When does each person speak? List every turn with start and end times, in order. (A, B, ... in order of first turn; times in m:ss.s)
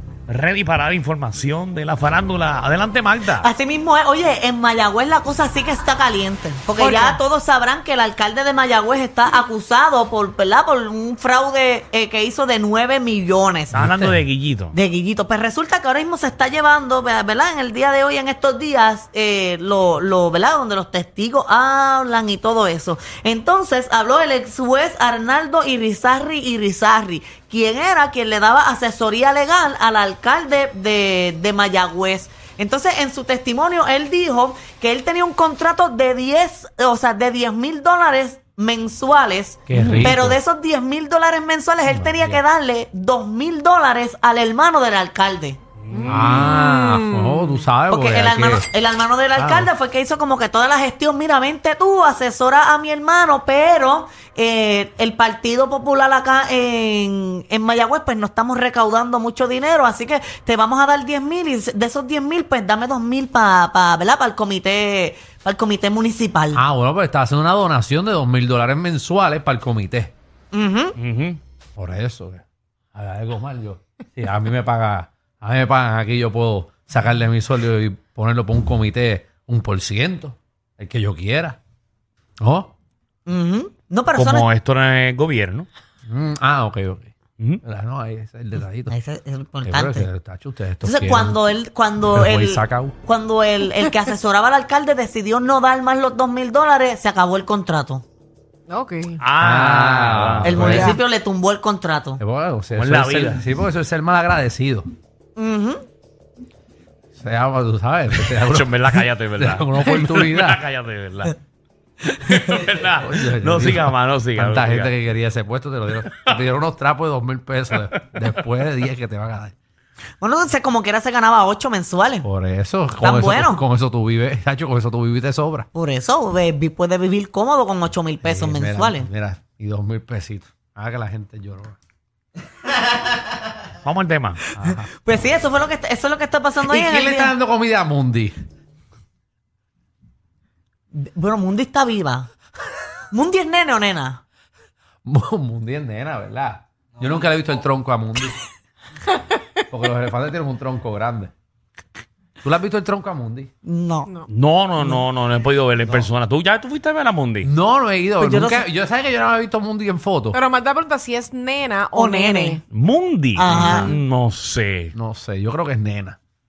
0:00.3-0:03.5 A
0:03.4-0:13.7 B
0:06.8-0:07.2 C
0:13.7-0:14.2 D
0:13.7-0:14.7 A
0:14.7-0:45.6 B
0:39.7-0:40.4 D
0:39.7-0:40.1 C
0:41.8-0:42.4 D
0:45.8-0:46.5 A
0:45.9-0:47.6 C
0:46.1-0:48.6 D
0:47.9-1:06.6 B
0:49.4-0:49.7 D
1:06.5-1:10.1 D
1:10.5-1:10.9 B
1:11.0-1:11.4 A
1:11.8-1:12.4 D
1:12.9-1:21.6 D
1:22.4-1:22.7 D
1:23.2-1:24.4 B
1:24.1-1:25.7 A
1:26.1-1:27.1 D
1:27.6-1:28.9 D
1:28.9-1:30.1 B
1:29.6-1:31.4 D
1:30.8-1:38.0 B
1:32.1-1:33.0 D
1:38.7-1:39.2 C
1:39.2-1:40.9 A
1:39.4-1:41.0 D
1:40.4-1:42.2 B
1:42.2-1:44.9 D
1:42.7-1:43.4 A
1:45.4-1:45.8 B
1:47.1-1:50.6 D
1:48.3-1:51.4 A
1:52.2-1:54.9 A
1:53.0-1:59.5 D
1:56.0-1:56.4 A
2:00.2-2:02.3 B
2:02.2-2:05.7 D
2:03.0-2:03.6 B
2:05.7-2:09.1 B
2:08.2-2:11.8 D
2:13.8-2:14.4 A
2:14.6-2:14.9 D
2:14.6-2:17.3 B
2:16.7-2:18.3 D
2:20.9-2:22.3 B
2:23.1-2:24.2 B
2:25.0-2:28.4 D
2:29.7-2:31.3 D
2:32.4-2:33.5 D
2:33.6-2:34.1 B
2:34.3-2:37.5 A
2:37.4-2:40.4 D
2:38.2-2:38.6 B
2:40.3-2:42.6 C
2:41.9-2:42.6 B
2:42.7-2:44.9 A
2:43.3-2:43.9 B
2:43.5-2:43.9 D
2:44.9-2:46.2 D